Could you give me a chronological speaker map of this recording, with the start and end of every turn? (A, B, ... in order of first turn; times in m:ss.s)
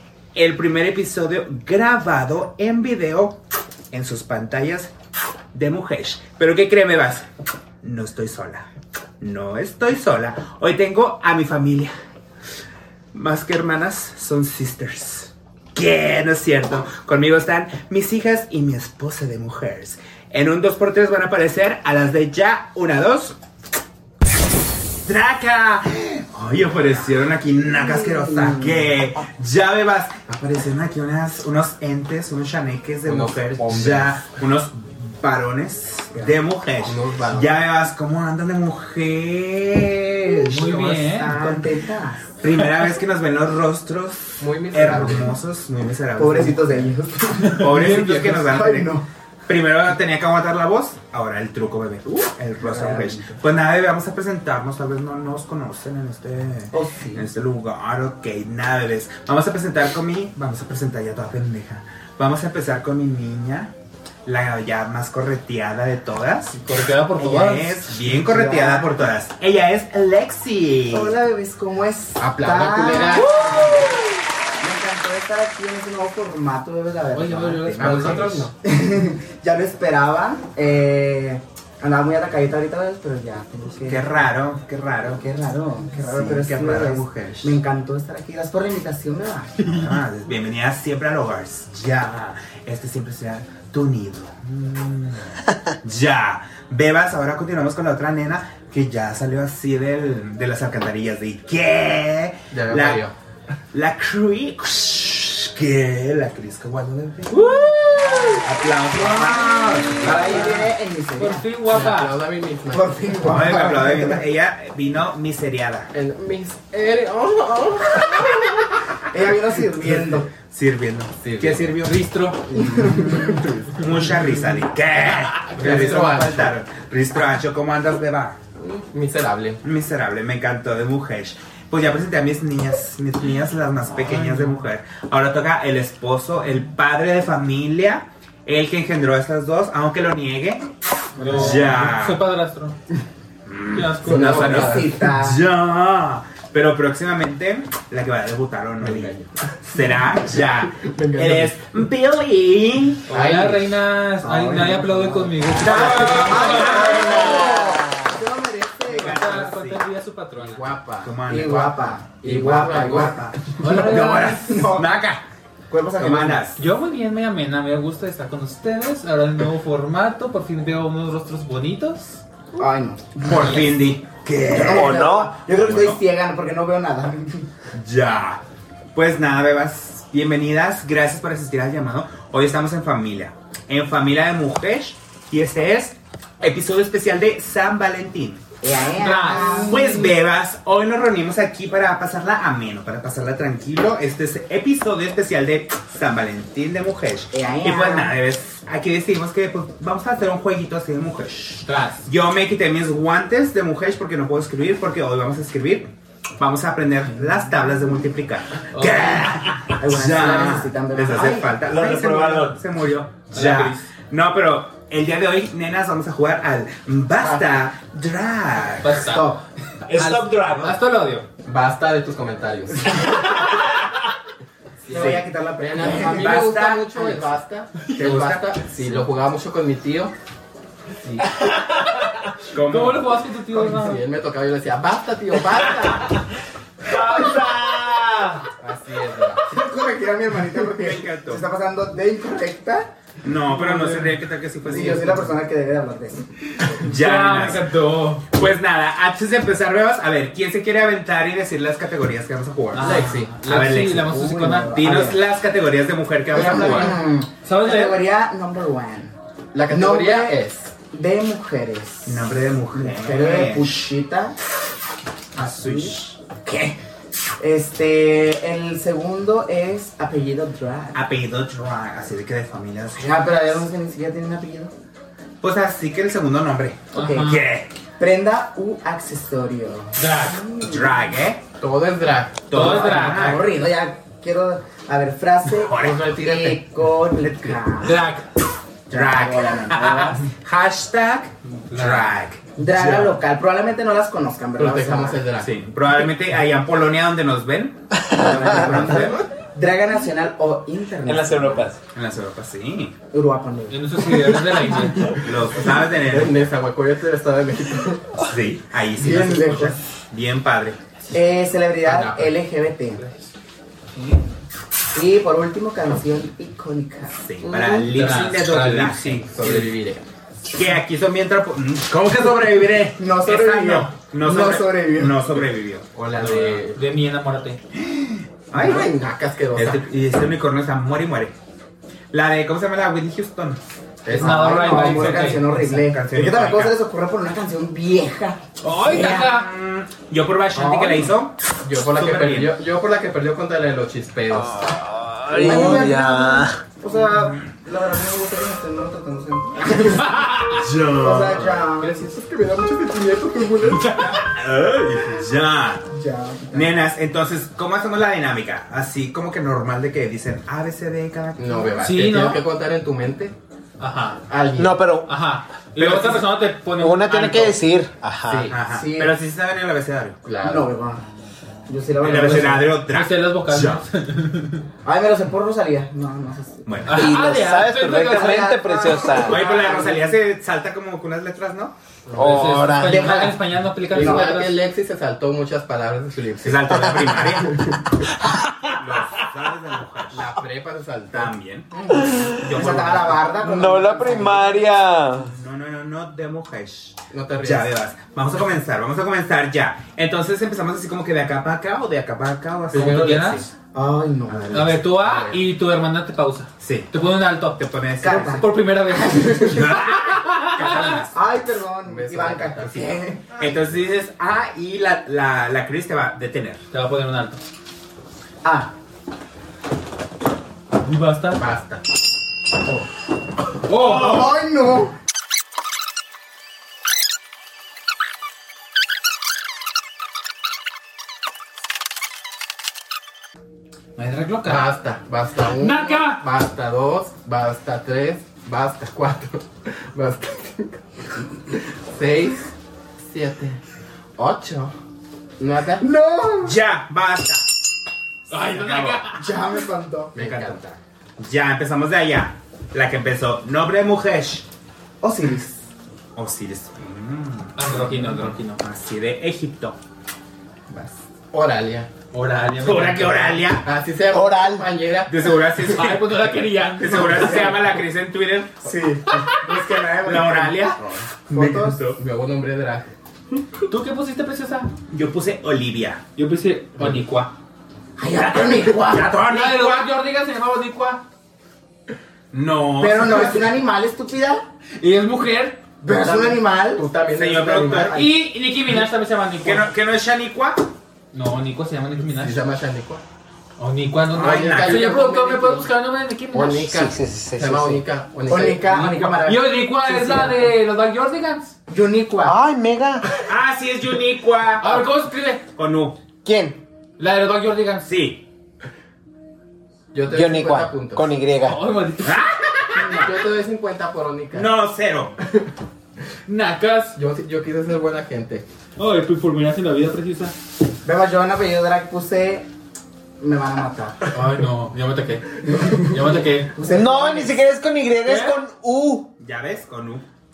0:00.3-0:03.4 A
0:03.9-0:04.9 A
0:05.5-0:07.3 A
0:07.8-0:08.6 A
0:09.2-0:11.9 A
0:13.1-0:23.3 A
0:24.8-0:41.7 A
0:27.7-0:28.9 B
0:33.0-0:34.2 C
0:36.8-0:37.5 C
0:40.5-0:41.3 D
0:41.1-0:42.3 B
0:42.3-0:46.9 A
0:44.4-0:45.4 C
0:46.2-0:49.0 B
0:47.4-0:48.9 A
0:47.8-0:48.4 D
0:49.5-1:03.7 A
0:52.6-0:53.4 B
0:56.7-0:57.3 B
1:04.2-1:11.1 A
1:06.6-1:07.8 D
1:08.1-1:08.9 B
1:10.9-1:13.9 B
1:12.2-1:13.3 C
1:14.6-1:17.7 B
1:17.1-1:18.5 D
1:17.5-1:18.5 A
1:17.8-1:18.5 C
1:18.6-1:24.1 B
1:23.9-1:25.2 A
1:25.1-1:29.7 B
1:26.0-1:27.6 A
1:29.6-1:43.1 A
1:42.5-1:43.1 C
1:43.7-1:47.4 A
1:47.3-1:48.4 D
1:48.4-1:50.6 A
1:48.9-1:52.2 D
1:49.1-1:51.4 B
1:51.7-1:53.2 C
1:52.7-1:54.2 B
1:53.2-1:55.9 A
1:55.9-1:58.6 C
1:59.1-2:00.3 B
2:00.3-2:02.0 A
2:01.2-2:01.8 C
2:01.8-2:03.4 D
2:02.5-2:03.2 B
2:03.0-2:03.8 C
2:03.7-2:08.4 A
2:05.5-2:06.5 C
2:08.6-2:09.6 C
2:09.6-2:22.2 A
2:14.0-2:14.6 D
2:21.2-2:22.8 D
2:23.4-2:33.0 A
2:23.7-2:24.8 D
2:24.0-2:24.9 C
2:24.2-2:25.4 B
2:28.8-2:29.3 C
2:30.4-2:31.6 C
2:33.1-2:33.7 C
2:33.1-2:37.5 D
2:34.2-2:39.4 B
2:35.5-2:37.4 A
2:37.3-2:38.0 E
2:38.9-2:39.8 A
2:39.0-2:40.6 D
2:40.4-2:43.3 C
2:41.0-2:41.7 A
2:41.3-2:45.0 B
2:42.7-2:45.2 A
2:43.6-2:44.6 D
2:45.7-2:46.4 B
2:46.0-2:46.6 A
2:46.6-2:52.2 D
2:52.6-2:53.7 B
2:53.2-2:56.0 A
2:54.5-2:57.5 B
2:54.6-2:55.4 E
2:57.7-2:58.4 A
2:58.9-3:08.4 A
3:08.6-3:10.0 B
3:09.0-3:10.1 D
3:09.2-3:39.0 A
3:17.3-3:18.1 B
3:21.6-3:22.0 D
3:28.7-3:29.7 D
3:29.8-3:31.5 B
3:31.5-3:32.6 E
3:33.3-3:33.9 D
3:37.2-3:37.6 C
3:38.8-3:39.3 D
3:39.0-3:39.4 B
3:39.9-3:40.8 A
3:39.9-3:40.5 E
3:39.9-3:41.2 D
3:41.4-3:43.1 C
3:44.8-3:50.1 C
3:44.9-3:46.5 B
3:44.9-3:45.2 A
3:45.8-3:47.3 A
3:47.9-3:49.0 A
3:51.0-3:51.3 C
3:52.5-3:53.2 A
3:52.6-3:54.0 D
3:53.5-3:56.2 C
3:56.8-3:58.4 E
3:58.6-3:59.4 C
3:59.4-4:02.9 B
4:00.6-4:01.4 A
4:03.2-4:05.3 A
4:03.5-4:04.1 D
4:04.6-4:06.2 B
4:06.7-4:07.7 A
4:06.8-4:08.3 D
4:08.3-4:12.9 A
4:12.7-4:14.8 D
4:12.8-4:13.4 C
4:13.4-4:17.0 A
4:14.1-4:15.2 B
4:16.3-4:18.0 D
4:16.3-4:19.1 B
4:19.5-4:20.7 C
4:19.7-4:20.4 B
4:20.9-4:24.3 B
4:22.0-4:23.8 A
4:25.3-4:26.2 A
4:25.4-4:26.8 B
4:27.4-4:31.0 B
4:30.9-4:33.3 A
4:33.0-4:34.7 B
4:35.4-4:37.7 A
4:36.9-4:37.4 B
4:36.9-4:37.4 D
4:38.0-4:41.1 B
4:40.0-4:40.4 D
4:40.6-4:41.4 A
4:41.6-4:42.6 C
4:42.5-4:43.5 A
4:42.5-4:43.5 D
4:42.5-4:48.0 B
4:45.5-4:46.0 A
4:45.8-4:46.6 C
4:47.8-4:48.2 D
4:48.9-4:50.2 B
4:48.9-4:53.1 A
4:51.7-4:52.2 D
4:52.6-4:55.2 B
4:54.6-4:55.5 C
4:55.4-4:59.1 A
4:58.1-5:01.6 B
4:58.2-4:59.3 C
5:01.0-5:01.8 E
5:01.9-5:02.9 A
5:03.1-5:04.0 B
5:03.7-5:05.2 D
5:05.0-5:06.4 A
5:06.0-5:08.1 C
5:08.2-5:10.8 A
5:09.0-5:09.8 B
5:11.1-5:13.0 B
5:11.8-5:12.3 C
5:13.0-5:13.2 D
5:14.9-5:17.2 B
5:17.2-5:19.7 A
5:17.9-5:19.5 D
5:19.3-5:20.0 C
5:20.5-5:26.6 A
5:23.0-5:25.2 B
5:25.9-5:26.8 C
5:26.2-5:27.6 D
5:27.7-5:28.9 A
5:28.5-5:29.8 C
5:29.5-5:31.3 A
5:32.1-5:33.6 A
5:34.0-5:35.2 C
5:34.1-5:35.8 D
5:34.1-5:39.3 B
5:35.9-5:36.7 A
5:38.6-5:39.5 D
5:38.9-5:41.3 A
5:40.6-5:41.1 C
5:41.6-5:44.8 C
5:41.9-5:42.6 A
5:44.3-5:46.6 E
5:45.3-5:50.1 B
5:45.4-5:45.7 C
5:47.1-5:47.4 A
5:49.8-5:50.7 D
5:50.5-5:51.6 A
5:51.0-5:52.1 B
5:51.8-5:54.2 C
5:53.7-5:54.2 D
5:54.1-5:55.9 A
5:55.9-5:56.7 B
5:56.5-6:01.8 A
6:01.4-6:03.4 C
6:01.8-6:02.4 D
6:03.8-6:04.2 D
6:04.3-6:04.9 C
6:04.6-6:05.1 E
6:05.0-6:07.6 D
6:05.8-6:06.3 A
6:06.7-6:08.6 E
6:08.2-6:08.6 C
6:08.5-6:10.2 A
6:08.7-6:09.1 B
6:10.2-6:10.7 C
6:10.4-6:11.0 B
6:11.7-6:12.8 B
6:12.0-6:13.8 A
6:12.9-6:14.6 D
6:14.8-6:17.0 B
6:16.6-6:17.2 A
6:16.9-6:18.5 D
6:16.9-6:19.5 E
6:18.0-6:20.2 B
6:19.2-6:21.7 A
6:22.1-6:22.6 C
6:22.1-6:23.2 E
6:22.2-6:24.5 D
6:22.7-6:23.4 B
6:23.9-6:27.8 C
6:23.9-6:24.4 B
6:26.4-6:27.8 A
6:28.2-6:28.8 E
6:28.8-6:30.3 A
6:30.1-6:31.3 C
6:31.1-6:31.7 A
6:31.7-6:34.7 B
6:31.9-6:32.6 E
6:32.4-6:33.2 A
6:33.4-6:35.3 E
6:35.2-6:43.5 A
6:37.1-6:37.7 C
6:42.7-6:43.5 D
6:42.7-6:43.1 C
6:43.7-6:44.8 B
6:44.3-6:44.9 A
6:44.5-6:51.1 D
6:45.0-6:45.4 C
6:46.6-6:46.9 A
6:47.5-6:48.5 A
6:48.0-6:49.6 B
6:49.4-6:51.1 A
6:51.1-6:53.3 B
6:51.8-6:53.0 C
6:53.4-6:56.6 A
6:56.7-6:57.4 D
6:58.4-6:58.7 B
7:00.8-7:01.4 D
7:01.3-7:01.8 C
7:03.7-7:04.4 D
7:03.7-7:04.9 B
7:14.0-7:14.7 D
7:14.4-7:23.6 C
7:15.4-7:16.2 D
7:24.2-7:24.7 C
7:25.4-7:25.8 C
7:25.8-7:26.6 B
7:26.4-7:27.5 A
7:28.3-7:29.3 D
7:28.4-7:29.1 A
7:29.1-7:30.2 B
7:30.1-7:30.6 C
7:30.2-7:34.4 A
7:35.0-7:35.6 B
7:36.2-7:39.8 A
7:37.6-7:38.6 D
7:40.7-7:41.0 B
7:41.3-7:41.9 C
7:42.1-7:43.6 D
7:42.6-7:43.6 A
7:43.6-7:45.9 C
7:44.1-7:44.7 E
7:45.1-7:48.6 A
7:45.6-7:47.6 D
7:46.9-7:47.5 B
7:48.6-7:50.8 B
7:50.0-7:52.0 A
7:51.3-7:51.8 B
7:51.9-7:52.8 C
7:53.7-7:54.7 D
7:54.9-7:56.0 A
7:56.2-7:57.3 D
7:58.0-7:59.1 B
7:58.8-7:59.9 A
7:59.0-8:01.0 D
8:02.3-8:03.5 A
8:02.8-8:04.4 B
8:04.8-8:05.6 D
8:05.8-8:06.8 B
8:05.8-8:08.1 C
8:07.1-8:08.0 A
8:07.9-8:09.6 D
8:09.4-8:10.7 A
8:11.1-8:12.4 D
8:12.1-8:13.0 C
8:13.6-8:16.8 D
8:14.1-8:14.9 A
8:14.2-8:15.7 C
8:16.3-8:18.8 C
8:16.6-8:17.8 E
8:18.3-8:20.5 B
8:18.7-8:21.5 D
8:21.7-8:22.4 B
8:22.2-8:23.2 E
8:23.3-8:24.9 A
8:24.6-8:25.4 D
8:25.5-8:26.0 A
8:26.2-8:26.6 E
8:27.0-8:27.9 D
8:27.8-8:28.2 A
8:29.9-8:31.1 C
8:30.1-8:31.6 E
8:31.4-8:32.8 D
8:32.0-8:33.1 A
8:32.7-8:33.1 B
8:33.0-8:34.5 C
8:34.3-8:35.2 A
8:36.3-8:37.0 D
8:36.9-8:38.4 C
8:38.8-8:40.3 D
8:40.8-8:42.5 B
8:43.2-8:44.0 B
8:44.1-8:46.6 D
8:46.5-8:47.4 B
8:46.6-8:49.1 E
8:48.0-8:48.4 D
8:49.2-8:50.0 A